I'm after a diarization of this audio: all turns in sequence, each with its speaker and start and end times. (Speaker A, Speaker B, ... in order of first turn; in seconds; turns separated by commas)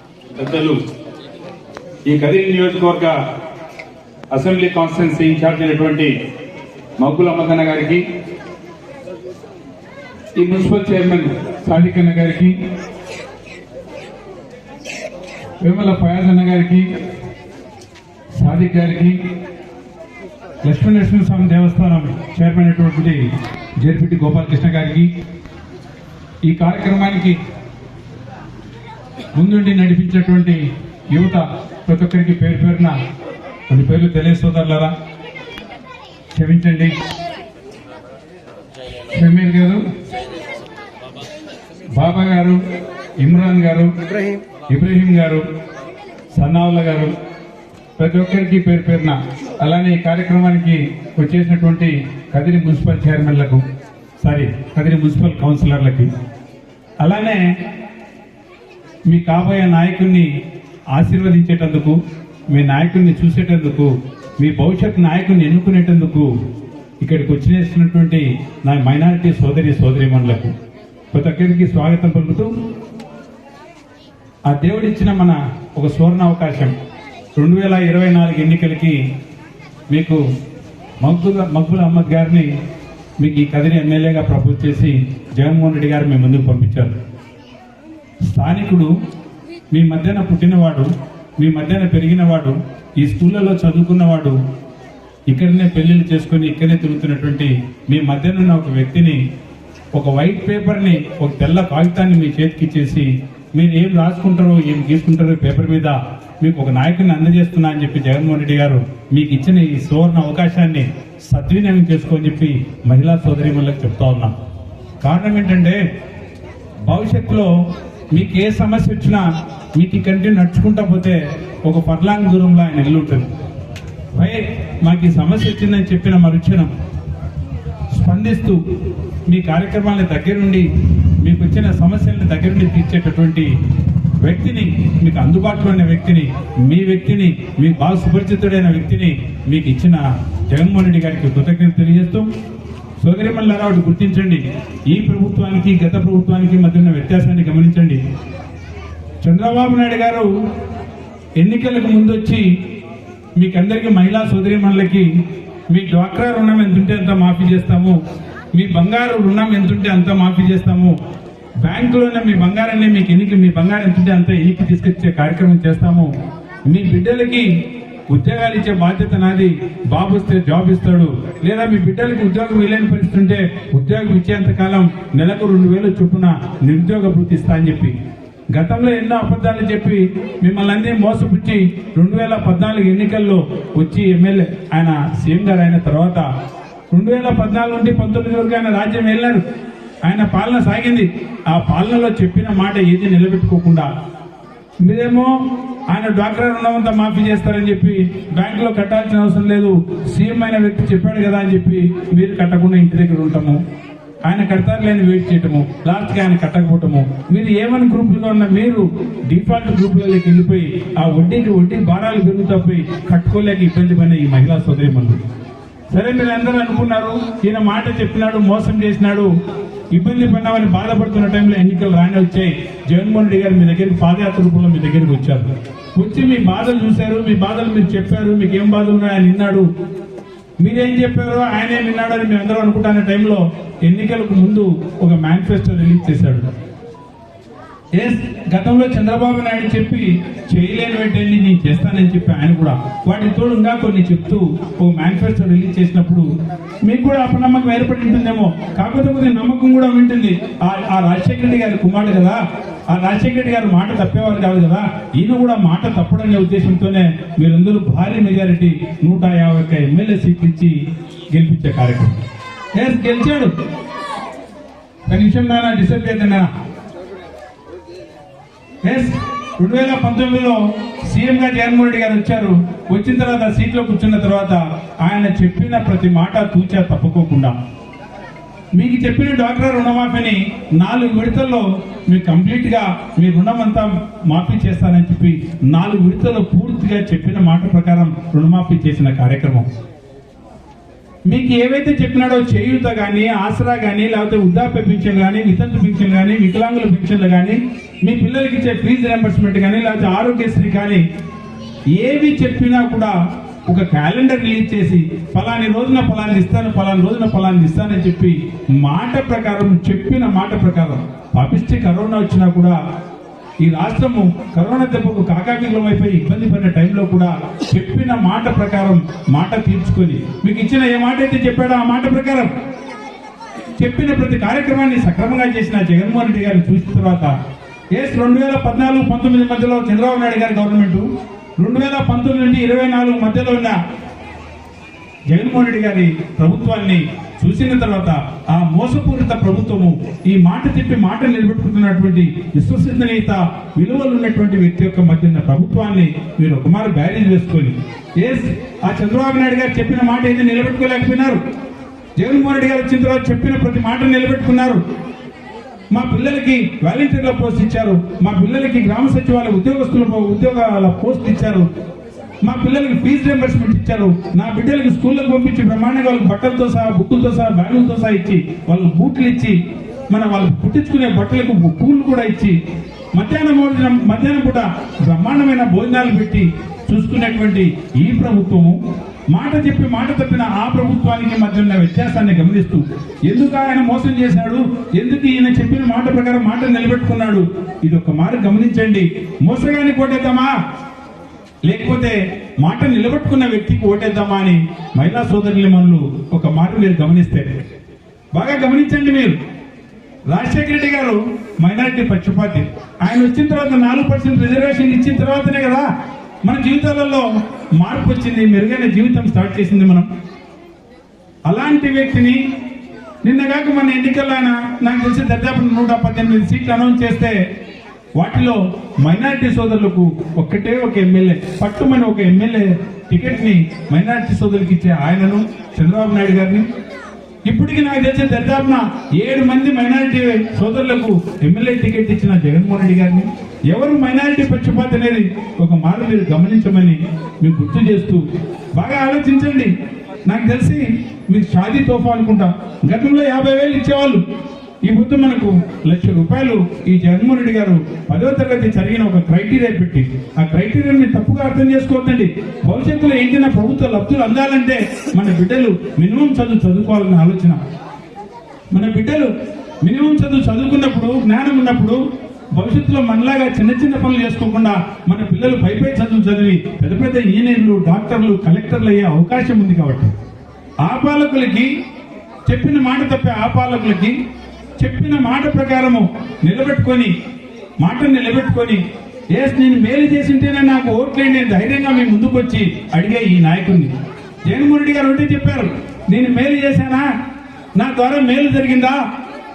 Speaker A: 0.3-0.8, Speaker A: 2.1-3.2, Speaker A: 4.3-6.1, Speaker A: 7.0-8.0, Speaker A: 10.3-12.6, Speaker A: 15.6-16.9, Speaker A: 18.4-19.2, Speaker A: 20.6-23.2, Speaker A: 23.8-25.1, Speaker A: 26.4-27.4, Speaker A: 29.4-32.9, Speaker A: 33.7-34.9, Speaker A: 36.3-36.9, Speaker A: 39.1-39.8, Speaker A: 41.9-42.6, Speaker A: 43.2-43.9, Speaker A: 44.7-45.4, Speaker A: 46.3-47.1, Speaker A: 48.0-53.6, Speaker A: 54.2-56.1, Speaker A: 57.0-57.5, Speaker A: 59.1-60.3, Speaker A: 60.9-62.0, Speaker A: 62.5-66.3, Speaker A: 67.0-70.5, Speaker A: 71.1-72.5, Speaker A: 74.5-76.7, Speaker A: 77.3-79.0, Speaker A: 79.9-80.2, Speaker A: 81.0-82.5, Speaker A: 83.2-87.0, Speaker A: 88.2-88.9, Speaker A: 89.7-94.4, Speaker A: 95.3-99.2, Speaker A: 99.9-114.3, Speaker A: 115.0-115.8, Speaker A: 116.8-117.5, Speaker A: 118.1-123.3, Speaker A: 124.1-126.7, Speaker A: 127.9-128.6, Speaker A: 129.3-133.5, Speaker A: 134.2-142.3, Speaker A: 143.0-148.0, Speaker A: 149.2-150.3, Speaker A: 151.4-152.4, Speaker A: 153.4-155.1, Speaker A: 155.7-158.0, Speaker A: 158.5-160.9, Speaker A: 161.6-166.1, Speaker A: 166.7-167.5, Speaker A: 168.1-177.9, Speaker A: 178.5-186.2, Speaker A: 186.9-189.4, Speaker A: 190.0-193.9, Speaker A: 194.8-195.3, Speaker A: 195.9-203.6, Speaker A: 204.2-215.2, Speaker A: 215.9-219.3, Speaker A: 219.9-229.7, Speaker A: 230.6-236.4, Speaker A: 237.9-246.3, Speaker A: 246.8-260.8, Speaker A: 261.3-262.2, Speaker A: 262.7-263.5, Speaker A: 265.1-266.5, Speaker A: 268.8-277.6, Speaker A: 278.8-289.6, Speaker A: 291.3-301.0, Speaker A: 301.9-312.8, Speaker A: 313.6-322.5, Speaker A: 323.8-327.3, Speaker A: 327.9-331.1, Speaker A: 331.6-333.8, Speaker A: 335.3-351.4, Speaker A: 352.2-354.8, Speaker A: 355.9-361.7, Speaker A: 362.4-369.6, Speaker A: 370.1-372.6, Speaker A: 373.1-378.8, Speaker A: 379.3-390.5, Speaker A: 391.6-397.5, Speaker A: 398.3-399.4, Speaker A: 400.3-405.9, Speaker A: 406.4-410.1, Speaker A: 411.5-412.4, Speaker A: 413.2-417.4, Speaker A: 418.2-426.6, Speaker A: 427.5-438.2, Speaker A: 438.7-439.7, Speaker A: 440.2-444.2, Speaker A: 444.9-457.6, Speaker A: 458.7-459.3, Speaker A: 459.8-462.0, Speaker A: 462.6-470.1, Speaker A: 470.8-471.7, Speaker A: 472.5-474.2, Speaker A: 474.8-477.1, Speaker A: 477.8-478.8, Speaker A: 479.3-483.9, Speaker A: 484.5-487.1, Speaker A: 487.8-489.0